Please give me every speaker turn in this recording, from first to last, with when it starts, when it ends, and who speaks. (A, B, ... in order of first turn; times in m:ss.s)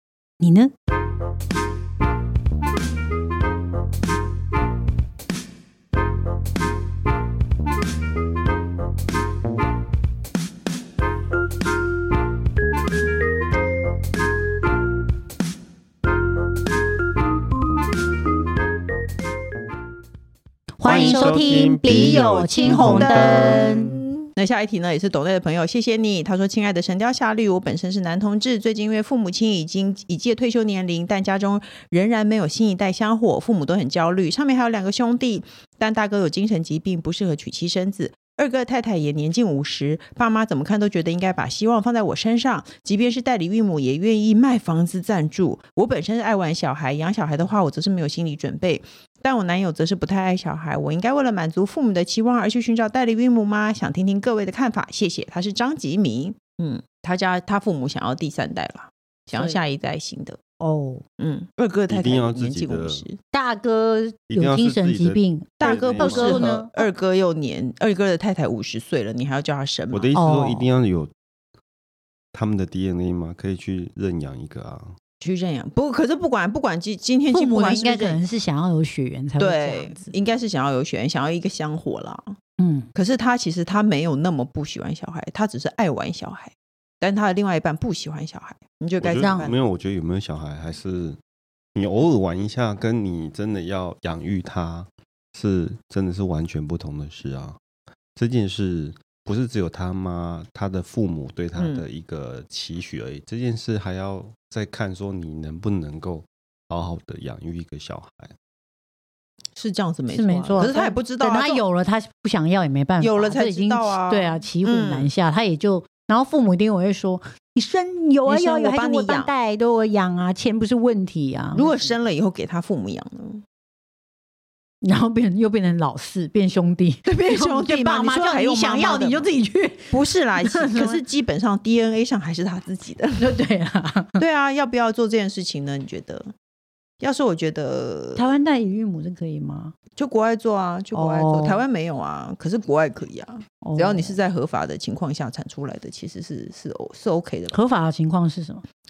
0:00.4-0:00.7 A
0:20.8-0:23.9 A
0:20.8-0:24.0 B
0:20.9-0:21.3 C
0:21.9-1:00.4 C
1:00.6-1:01.0 A
1:01.2-1:03.2 C
1:01.9-1:03.0 B
1:03.3-1:06.7 A
1:04.3-1:06.6 B
1:05.6-1:10.1 C
1:09.9-1:11.1 B
1:10.1-1:10.7 A
1:12.3-1:14.9 B
1:15.2-1:18.2 C
1:17.3-1:20.1 A
1:19.4-1:22.4 C
1:22.6-1:22.9 A
1:22.9-1:29.6 C
1:29.0-1:31.2 B
1:29.2-1:29.5 A
1:31.7-1:37.6 B
1:38.2-1:48.3 B
1:41.6-1:41.8 C
1:49.5-1:51.6 C
1:50.1-2:01.9 A
1:53.0-1:55.1 C
1:58.2-1:59.3 C
2:01.5-2:03.4 C
2:04.8-2:11.0 A
2:07.0-2:09.3 C
2:09.9-2:13.3 C
2:13.2-2:14.2 A
2:14.2-2:16.3 C
2:17.0-2:18.2 C
2:18.2-2:19.7 A
2:20.0-2:27.6 C
2:20.9-2:21.6 A
2:23.6-2:24.2 A
2:27.5-2:28.6 A